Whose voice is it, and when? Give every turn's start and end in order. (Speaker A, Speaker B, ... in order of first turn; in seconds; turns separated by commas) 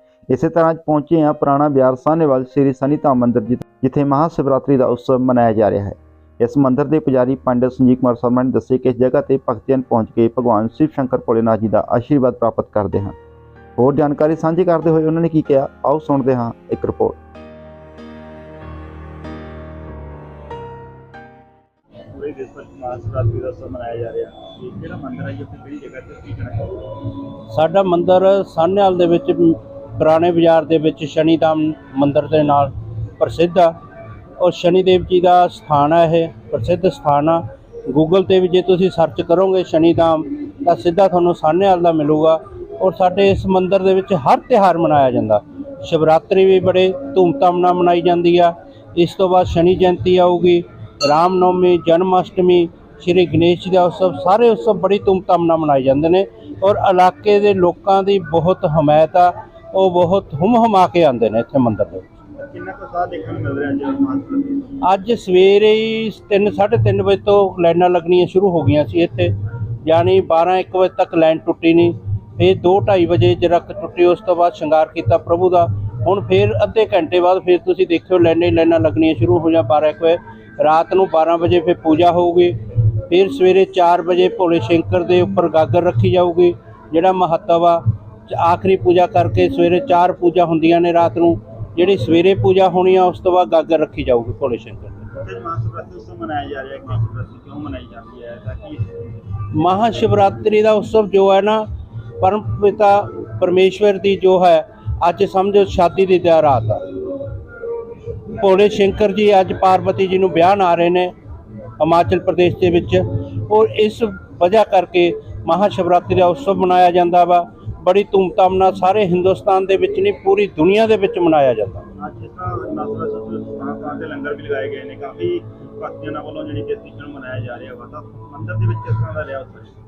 Speaker A: 0.3-13.2, Speaker A: 13.8-17.2, Speaker B: 22.1-26.8, Speaker C: 27.5-33.7, Speaker C: 34.4-62.0, Speaker B: 62.4-64.8, Speaker C: 64.8-82.6, Speaker C: 83.1-95.0, Speaker B: 95.1-98.8, Speaker C: 99.5-101.7, Speaker C: 102.2-106.8, Speaker C: 108.4-111.1, Speaker C: 111.8-121.8, Speaker B: 122.0-129.7